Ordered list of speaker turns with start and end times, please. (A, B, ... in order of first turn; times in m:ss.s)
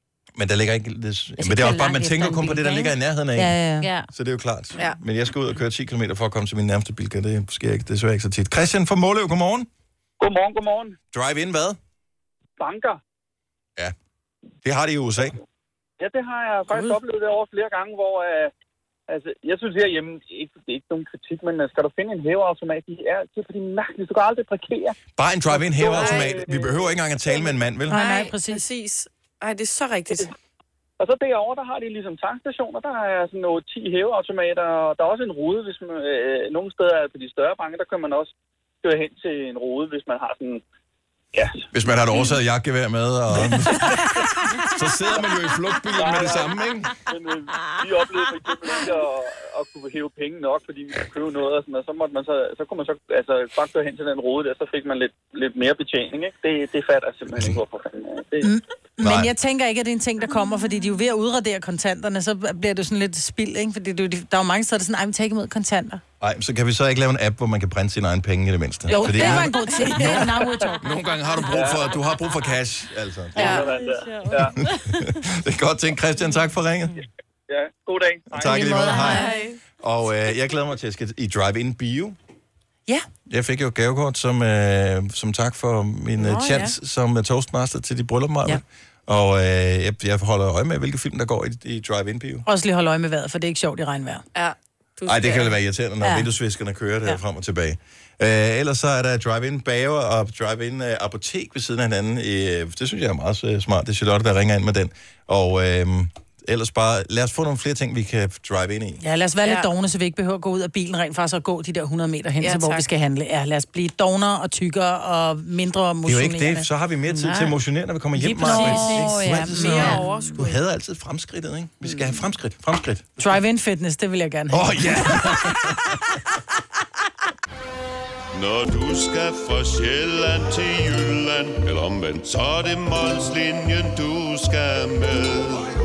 0:00.4-0:03.6 A
0:01.4-0:02.9 B
0:03.4-0:03.9 C
0:03.8-0:04.1 B
0:04.1-0:09.7 A
0:10.2-0:11.0 D
0:11.1-0:11.8 A
0:12.6-0:13.0 D
0:14.6-0:15.4 A
0:16.0-0:18.5 D
0:19.1-0:25.0 D
0:25.2-0:28.0 A
0:25.6-0:26.8 D
0:25.8-0:26.4 E
0:27.9-0:28.6 C
0:27.9-0:30.3 E
0:31.0-0:38.3 D
0:38.8-0:40.6 D
0:41.3-0:41.6 D
0:41.7-0:46.9 A
0:45.9-0:46.5 D
0:47.1-0:58.5 D
0:57.3-0:57.6 A
0:58.4-1:06.0 C
0:59.0-0:59.3 A
1:06.2-1:13.8 A
1:08.9-1:10.8 C
1:08.9-1:09.9 B
1:11.4-1:12.0 B
1:13.4-1:13.8 E
1:13.4-1:15.1 B
1:13.5-1:14.5 D
1:14.4-1:17.0 A
1:17.5-1:18.8 D
1:18.3-1:22.2 A
1:18.4-1:19.3 C
1:19.0-1:19.6 E
1:23.3-1:32.4 A
1:26.2-1:26.7 C
1:32.4-1:34.2 C
1:34.3-1:35.6 E
1:35.0-1:49.0 A
1:36.0-1:36.3 C
1:49.0-1:56.7 C
1:52.4-1:52.8 E
1:56.0-2:03.4 A
1:57.2-1:57.5 B
1:58.2-2:00.1 B
1:58.3-2:00.2 C
1:59.5-2:00.6 E
2:03.2-2:05.6 C
2:04.5-2:06.0 A
2:08.3-2:15.7 F